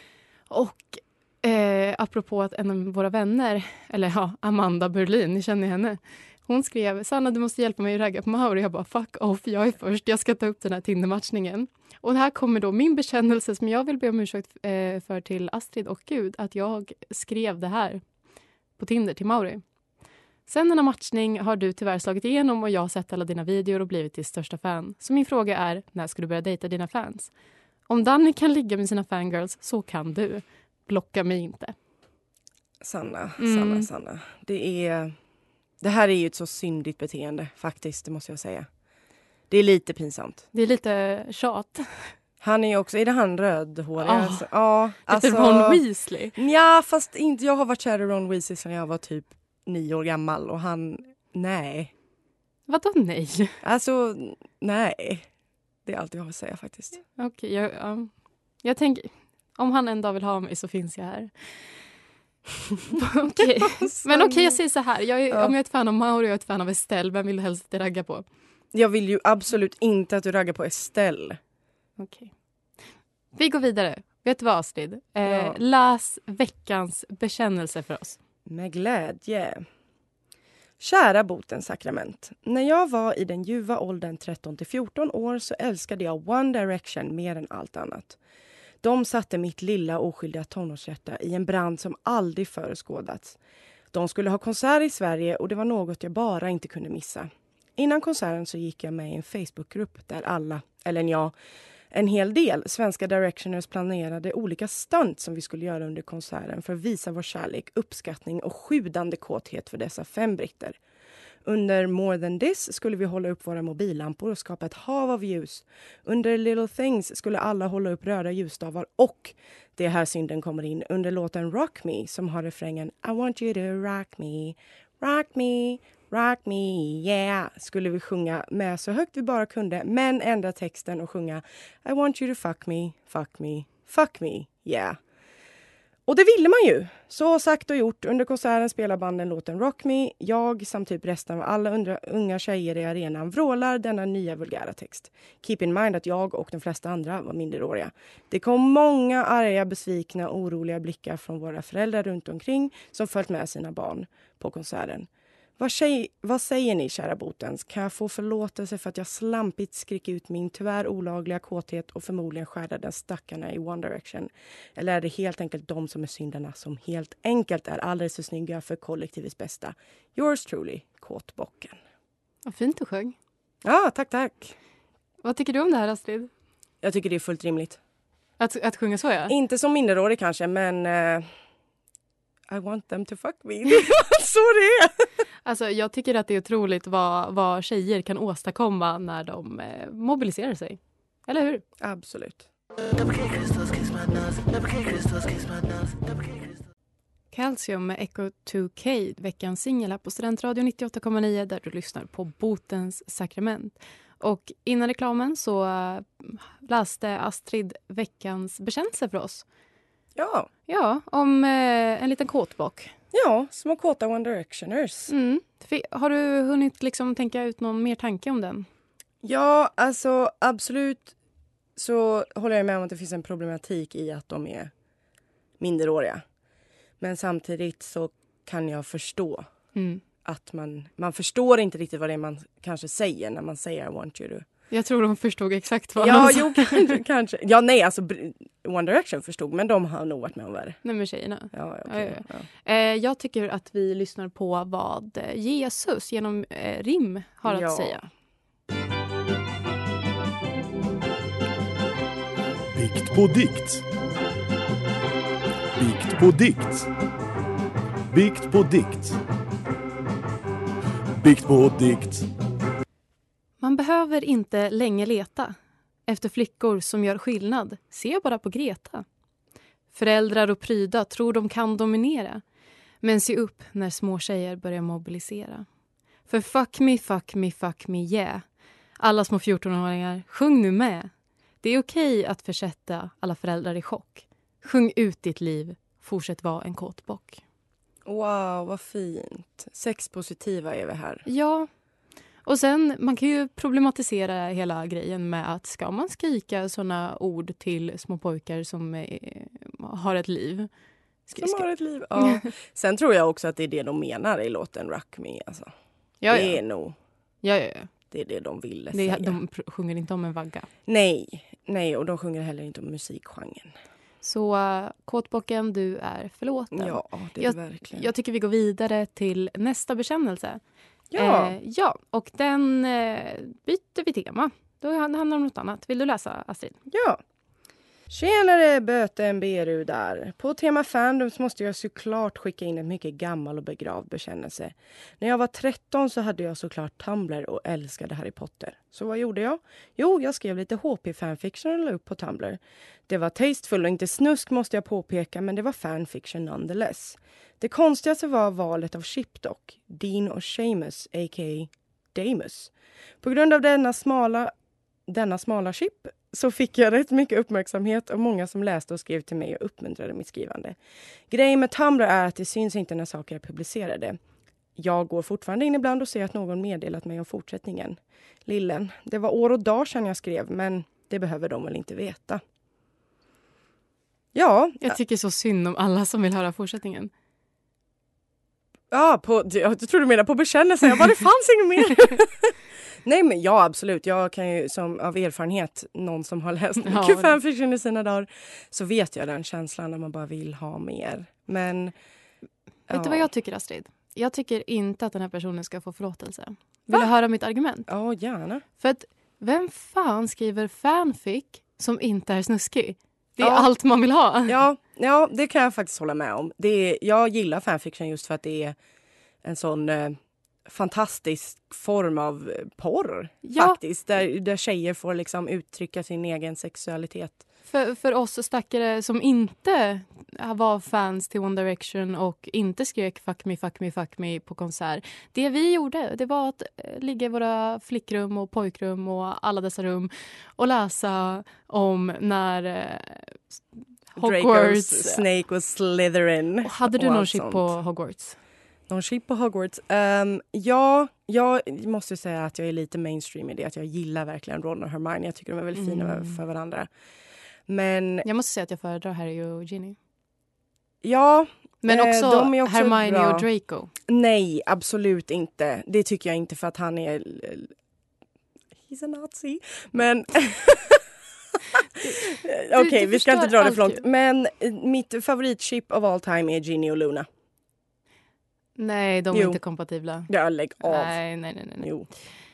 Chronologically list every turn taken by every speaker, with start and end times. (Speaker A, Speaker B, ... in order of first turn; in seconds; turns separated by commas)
Speaker A: 0.5-18.0, Speaker A: 18.8-19.6, Speaker A: 20.5-27.3, Speaker A: 27.9-31.7, Speaker B: 32.8-35.1, Speaker A: 33.4-33.9, Speaker B: 35.8-38.7, Speaker B: 39.5-40.4, Speaker A: 40.5-42.1, Speaker B: 42.4-45.8, Speaker A: 44.0-44.5, Speaker A: 45.1-46.4, Speaker B: 46.4-51.9, Speaker A: 52.7-53.5, Speaker B: 53.6-55.3, Speaker B: 55.9-57.0, Speaker A: 57.1-58.1, Speaker A: 58.6-61.3, Speaker A: 62.9-68.2, Speaker B: 63.4-64.6, Speaker B: 68.7-71.4, Speaker A: 72.0-72.3, Speaker A: 73.3-78.2, Speaker B: 75.2-75.6, Speaker B: 78.5-79.6, Speaker B: 80.8-88.2, Speaker B: 88.8-93.4, Speaker B: 93.9-101.3, Speaker B: 101.9-110.8, Speaker B: 111.4-135.0, Speaker B: 136.1-171.8, Speaker A: 172.4-173.1, Speaker B: 173.6-174.6, Speaker A: 175.2-176.3, Speaker B: 176.8-177.8, Speaker A: 178.4-179.3, Speaker B: 179.3-181.3, Speaker B: 182.5-185.1, Speaker A: 185.4-191.6, Speaker B: 191.8-192.5, Speaker B: 193.6-196.0, Speaker A: 197.3-209.4, Speaker B: 210.2-210.5, Speaker A: 210.7-212.9, Speaker B: 213.1-215.1, Speaker A: 215.1-218.7, Speaker B: 219.2-221.1, Speaker B: 221.8-224.7, Speaker B: 225.6-226.2, Speaker B: 227.0-229.5, Speaker A: 229.7-230.0, Speaker B: 230.2-234.4, Speaker A: 234.7-236.9, Speaker B: 236.0-240.8, Speaker A: 240.8-248.0, Speaker B: 241.5-242.4, Speaker B: 247.4-248.0, Speaker C: 252.7-253.8, Speaker C: 255.8-256.9, Speaker C: 258.1-259.2, Speaker C: 261.1-262.2, Speaker A: 263.6-265.6, Speaker A: 266.1-269.0, Speaker A: 269.9-272.4, Speaker A: 273.0-275.6, Speaker A: 276.3-278.4, Speaker A: 279.0-281.1, Speaker A: 281.6-287.4, Speaker B: 288.0-291.2, Speaker A: 291.3-291.7, Speaker A: 292.4-300.7, Speaker A: 301.3-301.7, Speaker B: 301.4-305.7, Speaker A: 302.2-302.4, Speaker A: 306.2-306.6, Speaker B: 306.3-306.9, Speaker A: 307.4-307.9, Speaker B: 308.1-309.4, Speaker A: 308.9-310.7, Speaker B: 310.9-313.7, Speaker A: 314.2-320.6, Speaker B: 316.7-318.1, Speaker B: 321.1-321.6, Speaker A: 321.1-326.8, Speaker B: 326.9-327.2, Speaker B: 328.1-354.5, Speaker B: 355.1-360.8, Speaker B: 361.3-364.2, Speaker B: 364.8-372.4, Speaker B: 374.3-375.0, Speaker A: 374.8-377.1, Speaker B: 378.9-391.9, Speaker A: 386.8-387.4, Speaker B: 392.9-393.3, Speaker A: 392.9-397.9, Speaker B: 397.9-398.6, Speaker A: 398.8-404.6, Speaker B: 403.4-403.7, Speaker B: 404.5-408.8, Speaker B: 409.4-417.4, Speaker A: 413.4-413.8, Speaker A: 417.7-433.4, Speaker A: 434.1-435.2, Speaker B: 434.1-437.7, Speaker A: 436.6-438.4, Speaker B: 438.9-446.9, Speaker A: 445.7-446.4, Speaker B: 447.7-448.2, Speaker A: 448.2-449.9, Speaker B: 451.0-453.5, Speaker A: 451.8-453.9, Speaker B: 454.1-457.7, Speaker B: 458.9-461.1, Speaker B: 461.6-467.3, Speaker A: 462.0-464.0, Speaker A: 468.8-470.3, Speaker B: 469.3-469.6, Speaker B: 470.3-471.2, Speaker A: 470.8-471.9, Speaker B: 471.8-472.1